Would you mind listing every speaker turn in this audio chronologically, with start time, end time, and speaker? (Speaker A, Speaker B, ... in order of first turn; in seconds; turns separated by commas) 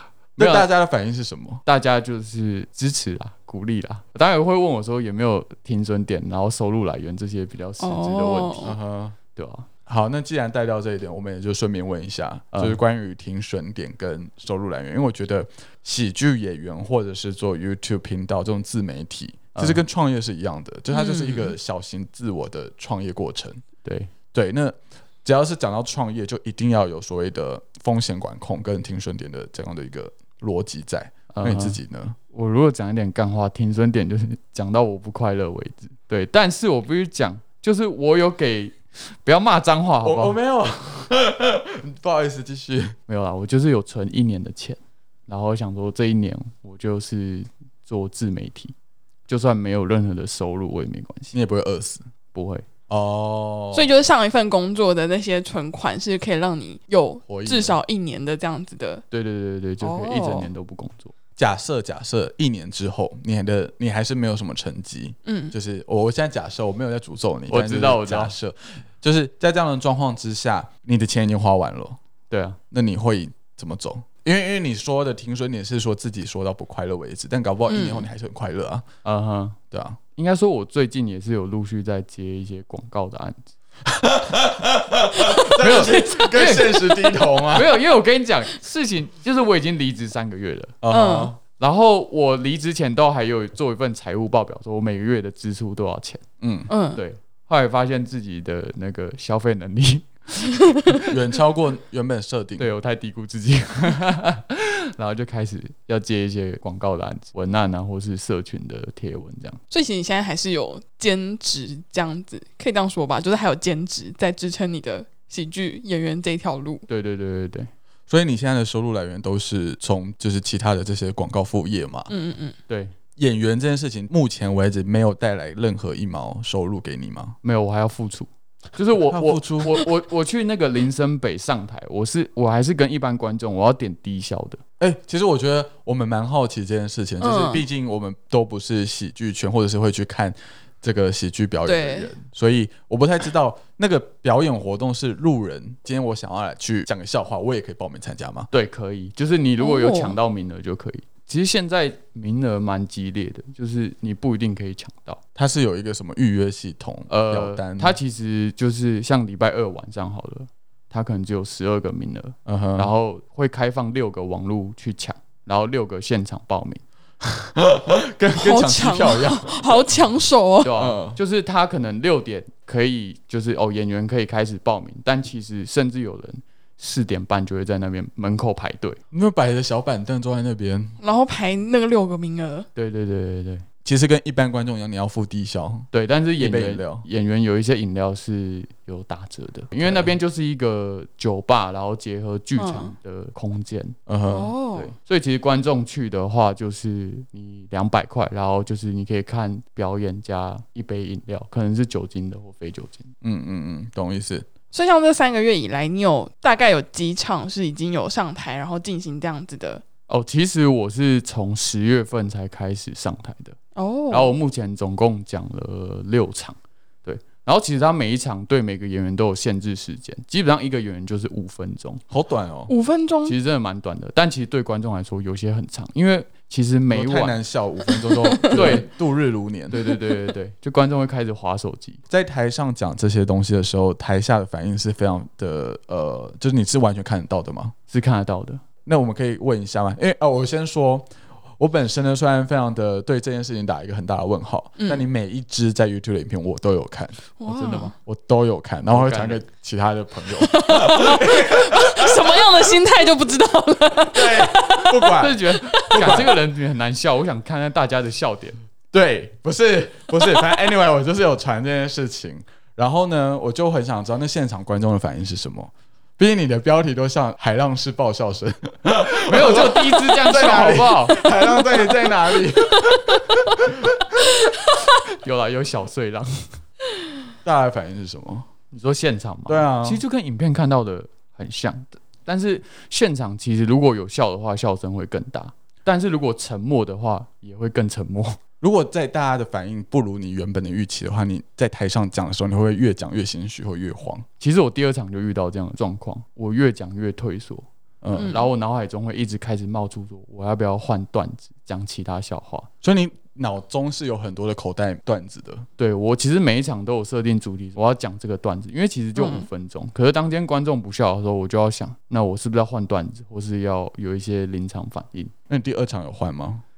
Speaker A: 0.4-0.7, Speaker B: 0.4-1.6, Speaker A: 1.6-8.7, Speaker C: 7.8-8.7, Speaker B: 8.6-9.2, Speaker A: 9.3-9.7, Speaker B: 9.9-23.6, Speaker A: 12.5-12.8, Speaker A: 19.5-19.8, Speaker C: 20.9-21.5, Speaker A: 23.8-24.1, Speaker B: 24.3-32.1, Speaker A: 31.3-31.8, Speaker A: 32.3-40.4, Speaker B: 40.0-43.0, Speaker A: 43.1-48.8, Speaker A: 49.3-51.4, Speaker B: 51.3-52.0, Speaker A: 52.3-52.6, Speaker B: 52.9-53.9, Speaker C: 53.7-59.0, Speaker B: 57.3-57.8, Speaker A: 59.1-61.1, Speaker C: 59.8-60.5, Speaker B: 61.4-72.0, Speaker C: 65.2-65.5, Speaker A: 67.5-68.3, Speaker A: 72.3-72.6, Speaker B: 72.7-78.8, Speaker C: 77.7-78.1, Speaker A: 79.0-79.6, Speaker B: 79.7-80.0, Speaker A: 80.2-83.5, Speaker B: 83.9-87.8, Speaker A: 85.5-90.8, Speaker B: 90.8-91.4, Speaker C: 90.9-91.3, Speaker A: 91.6-96.2, Speaker B: 96.4-96.7, Speaker C: 96.7-97.0, Speaker A: 96.9-101.0, Speaker B: 101.1-102.7, Speaker A: 102.6-109.6, Speaker C: 109.7-116.8, Speaker A: 116.9-117.7, Speaker B: 118.1-122.1, Speaker C: 122.1-122.6, Speaker A: 122.7-122.9, Speaker B: 123.2-127.4, Speaker A: 127.4-134.6, Speaker B: 129.1-129.9, Speaker B: 134.8-148.5, Speaker C: 137.2-137.6, Speaker C: 141.7-142.1, Speaker A: 148.5-155.2, Speaker C: 149.6-150.2, Speaker B: 155.4-158.0, Speaker A: 157.1-166.8, Speaker B: 162.4-162.9, Speaker B: 167.6-169.9, Speaker C: 168.4-170.8, Speaker A: 170.6-179.0, Speaker B: 170.8-171.2, Speaker B: 179.1-181.0, Speaker C: 181.0-182.7, Speaker A: 182.8-183.6, Speaker B: 183.8-187.1, Speaker A: 185.9-194.0, Speaker B: 189.8-190.1, Speaker C: 192.6-192.9, Speaker B: 194.1-194.6, Speaker C: 194.3-194.9, Speaker A: 194.8-203.1, Speaker B: 203.2-204.5, Speaker C: 204.7-209.8, Speaker A: 210.1-213.6, Speaker C: 213.8-214.3, Speaker A: 214.1-222.0, Speaker B: 222.1-222.7, Speaker C: 222.7-223.3, Speaker A: 223.2-227.4, Speaker B: 226.9-229.9, Speaker C: 228.0-228.7, Speaker A: 228.5-228.9, Speaker A: 229.7-232.0, Speaker B: 232.1-237.7, Speaker A: 237.9-238.6, Speaker B: 238.9-247.3, Speaker C: 244.8-245.0, Speaker C: 247.4-247.9, Speaker A: 247.4-247.9, Speaker B: 248.0-252.7, Speaker A: 248.9-249.4, Speaker C: 250.3-256.2, Speaker B: 254.1-256.4, Speaker A: 255.1-258.6, Speaker B: 258.9-274.2, Speaker A: 269.1-271.2, Speaker A: 275.1-276.6, Speaker B: 277.4-278.5, Speaker A: 278.7-288.4, Speaker B: 279.5-280.0, Speaker B: 288.6-294.2, Speaker A: 294.4-302.7, Speaker B: 298.0-298.4, Speaker B: 302.8-305.7, Speaker A: 305.8-315.3, Speaker C: 309.1-309.5, Speaker B: 315.5-316.6